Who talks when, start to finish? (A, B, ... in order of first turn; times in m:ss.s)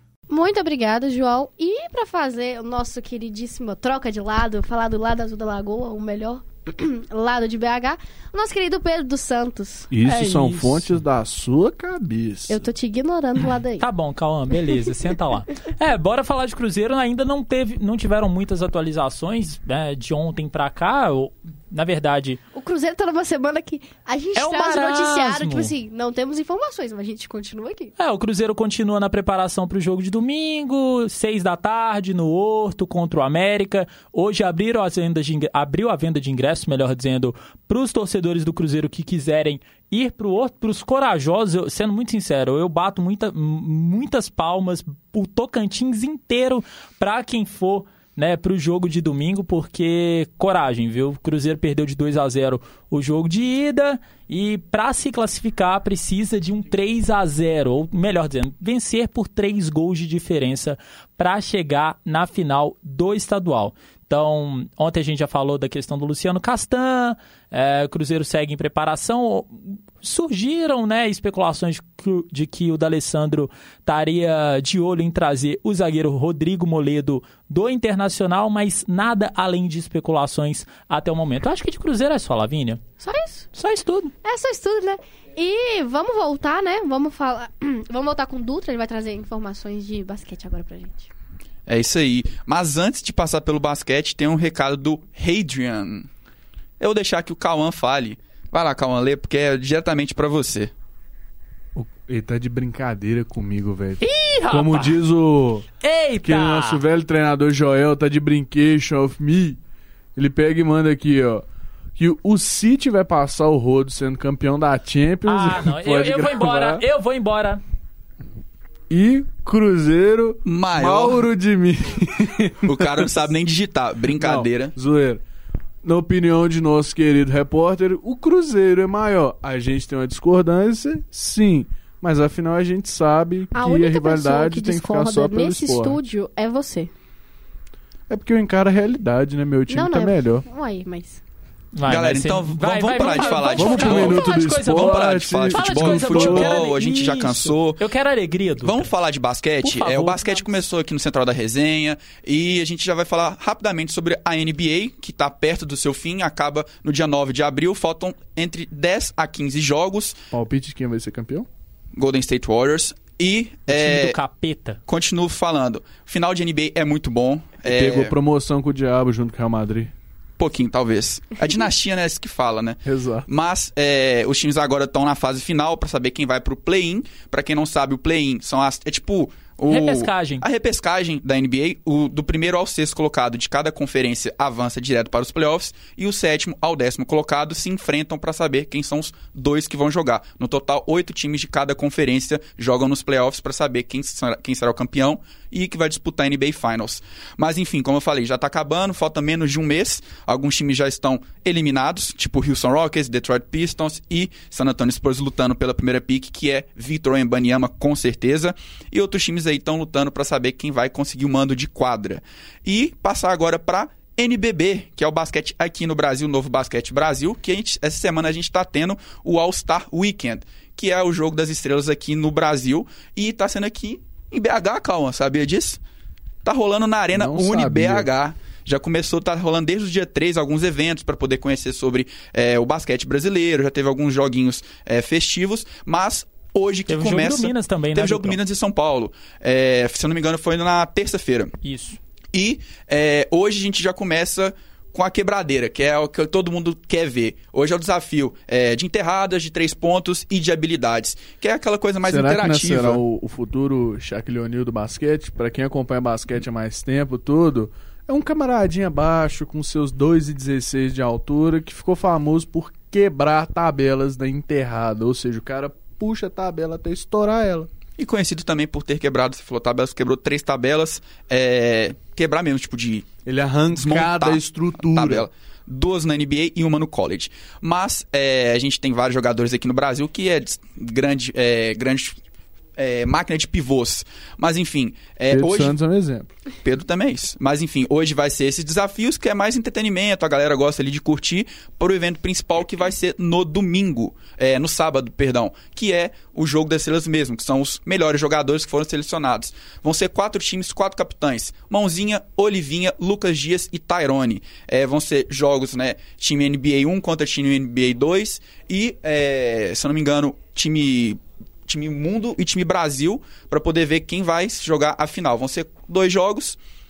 0:00.3-0:09.9 A
0:09.9-0:12.7 B
0:10.0-0:11.0 C
0:12.5-0:13.9 A
0:13.8-0:22.4 C
0:22.5-0:27.9 A
0:24.4-0:25.7 C
0:28.0-1:22.8 C
1:23.0-1:23.5 A
1:23.5-1:24.1 C
1:24.2-1:31.1 A
1:31.7-1:36.1 D
1:36.8-1:40.7 D
1:41.7-1:45.7 B
1:44.0-1:44.9 C
1:45.8-1:46.8 C
1:46.2-1:49.6 B
1:50.2-1:51.4 B
1:52.0-1:56.8 B
1:55.2-1:57.6 C
1:58.9-2:03.1 B
2:00.4-2:01.2 D
2:02.6-2:04.7 D
2:04.1-2:05.2 B
2:05.8-2:16.0 B
2:13.5-2:16.9 A
2:18.1-2:20.4 B
2:19.7-2:21.2 A
2:21.7-2:28.9 C
2:21.8-2:27.8 D
2:23.3-2:26.7 B
2:28.6-2:40.2 D
2:29.6-2:30.4 C
2:40.3-2:41.5 B
2:41.9-2:44.2 D
2:43.7-2:44.8 C
2:44.9-2:48.1 D
2:47.6-2:49.9 B
2:50.4-3:45.8 D
2:52.8-2:53.3 B
2:59.7-3:00.4 C
3:46.4-4:01.5 D
3:47.1-3:48.1 B
3:56.9-3:58.4 C
4:01.6-4:02.0 C
4:02.3-4:13.0 D
4:12.0-4:27.7 B
4:28.0-4:33.1 D
4:33.2-4:35.2 B
4:33.7-4:42.2 D
4:42.8-4:45.7 D
4:45.3-4:46.3 B
4:46.6-5:16.6 D